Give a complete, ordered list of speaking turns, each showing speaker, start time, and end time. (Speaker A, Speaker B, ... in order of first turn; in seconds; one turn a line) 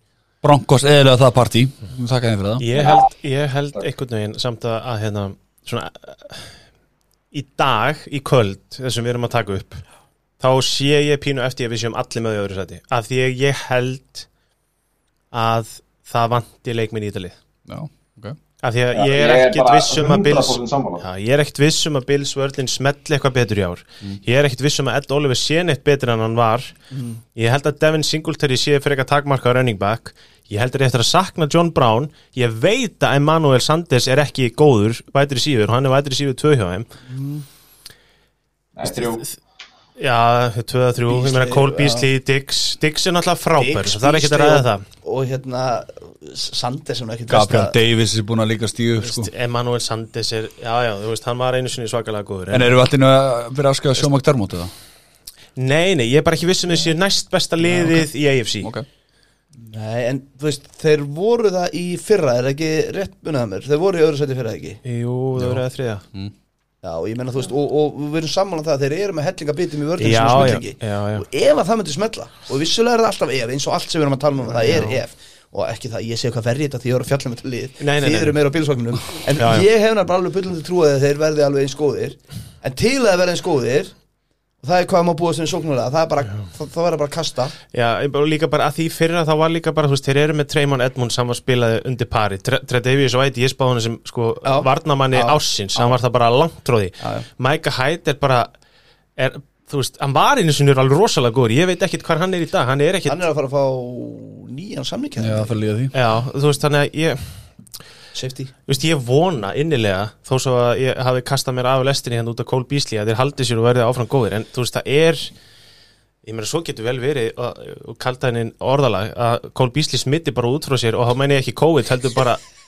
Speaker A: 0.4-2.6
Speaker B: 2.6-6.5
Speaker C: 2.7-3.1
Speaker B: 7.3-9.8
Speaker B: 10.4-14.2
Speaker B: 15.3-17.3
Speaker A: 17.7-18.4
Speaker B: 18.6-26.7
Speaker C: 18.9-21.0
Speaker D: 26.9-27.2
Speaker B: 27.3-36.9
Speaker D: 37.1-37.4
Speaker C: 38.8-39.2
Speaker B: 38.9-39.2
Speaker B: 40.0-44.8
Speaker D: 41.1-42.1
Speaker D: 43.6-47.7
Speaker A: 47.3-49.3
Speaker B: 49.0-52.7
Speaker A: 52.5-54.7
Speaker B: 55.5-58.7
Speaker D: 59.6-64.8
Speaker B: 64.8-66.0
Speaker A: 65.4-66.3
Speaker D: 66.8-83.9
Speaker B: 70.0-71.2
Speaker B: 74.5-75.0
Speaker B: 77.8-78.4
Speaker B: 79.4-79.7
Speaker D: 84.6-87.5
Speaker B: 87.7-98.5
Speaker D: 94.4-95.9
Speaker D: 97.0-97.2
Speaker B: 99.2-103.2
Speaker D: 103.0-105.6
Speaker A: 105.2-105.9
Speaker B: 105.9-107.2
Speaker D: 108.1-108.5
Speaker B: 108.7-115.3
Speaker B: 116.2-122.4